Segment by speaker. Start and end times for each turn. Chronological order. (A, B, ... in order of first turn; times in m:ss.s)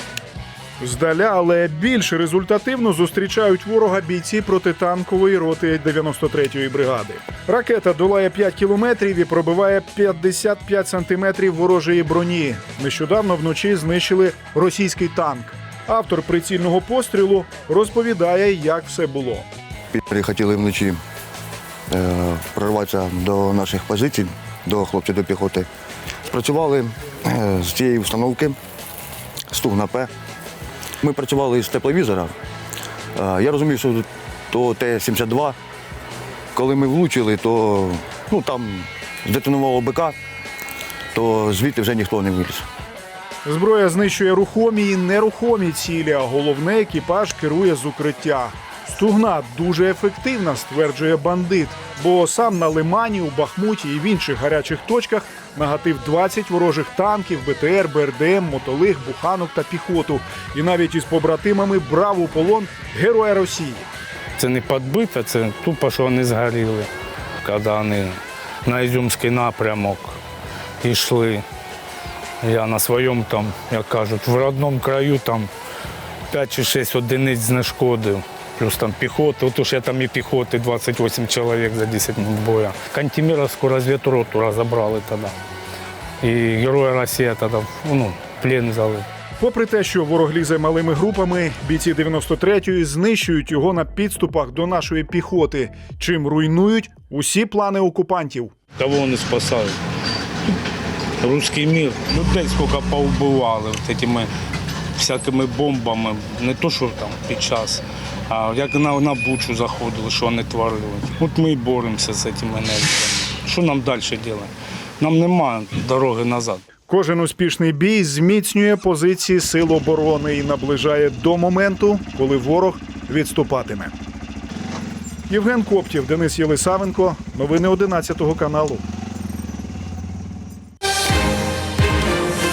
0:00.8-0:19.5 A
0:19.9-0:21.0 B
0:21.9-0:25.7 B
0:26.3-0:28.6 B
0:29.5-0:30.1 B
0:31.0-0:32.3 B
0:33.2-0:35.6 B
0:36.6-0:40.2 B
0:41.2-0:42.6 B
0:43.4-1:03.9 A
1:04.4-1:06.9 C
1:07.4-1:10.2 C
1:10.8-1:11.4 C
1:12.4-1:15.5 C
1:16.3-1:25.4 C
1:26.2-1:29.1 C
1:29.4-1:38.5 A
1:38.8-1:39.8 C
1:41.2-1:44.3 C
1:45.0-1:56.6 C
1:56.9-2:03.9 A
2:05.3-2:08.8 A